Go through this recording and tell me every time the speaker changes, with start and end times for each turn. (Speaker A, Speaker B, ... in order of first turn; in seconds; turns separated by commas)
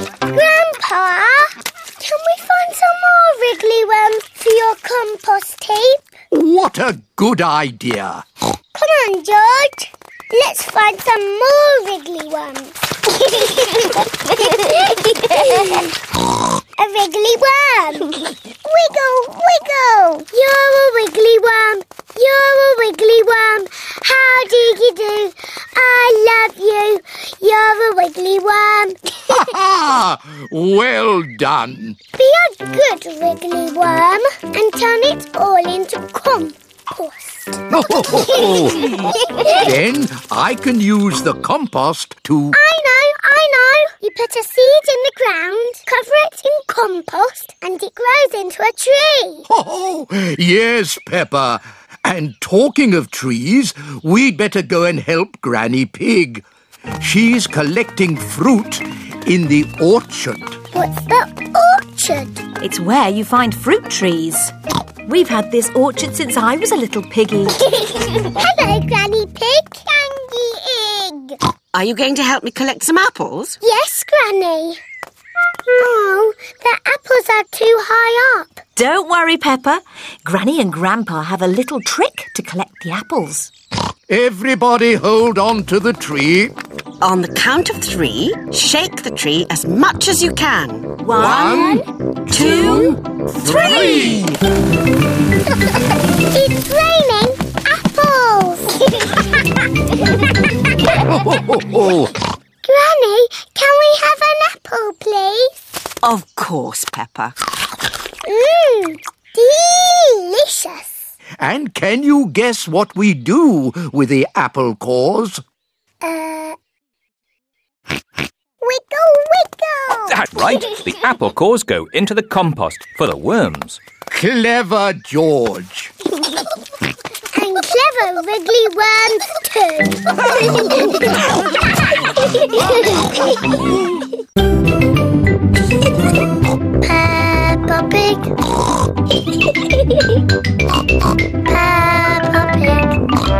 Speaker A: 0.3-1.4, Speaker A: 2.0-6.0, Speaker B: 6.3-8.2, Speaker A: 8.7-15.9, Speaker A: 16.8-29.2, Speaker B: 29.3-32.0, Speaker A: 32.1-37.6, Speaker B: 37.7-42.6, Speaker A: 38.9-39.5, Speaker A: 42.5-49.5, Speaker B: 49.5-56.4, Speaker B: 57.0-60.6, Speaker A: 60.7-62.4, Speaker C: 62.6-64.5, Speaker C: 65.0-67.6, Speaker A: 67.8-71.4, Speaker D: 71.7-73.4, Speaker A: 73.6-74.8, Speaker A: 75.7-78.6, Speaker C: 78.8-83.5, Speaker B: 84.1-86.5, Speaker D: 87.0-91.2, Speaker C: 91.0-94.2, Speaker B: 91.1-94.4, Speaker A: 96.3-99.2, Speaker B: 101.1-102.1, Speaker A: 102.6-105.5, Speaker C: 106.0-107.3, Speaker A: 108.2-110.9, Speaker B: 111.4-115.4, Speaker A: 116.0-116.6, Speaker A: 118.6-120.2, Speaker E: 120.1-123.8, Speaker B: 124.1-125.9, Speaker A: 127.3-130.9, Speaker A: 132.4-133.0, Speaker A: 136.8-138.3, Speaker A: 139.7-140.0, Speaker A: 141.5-142.9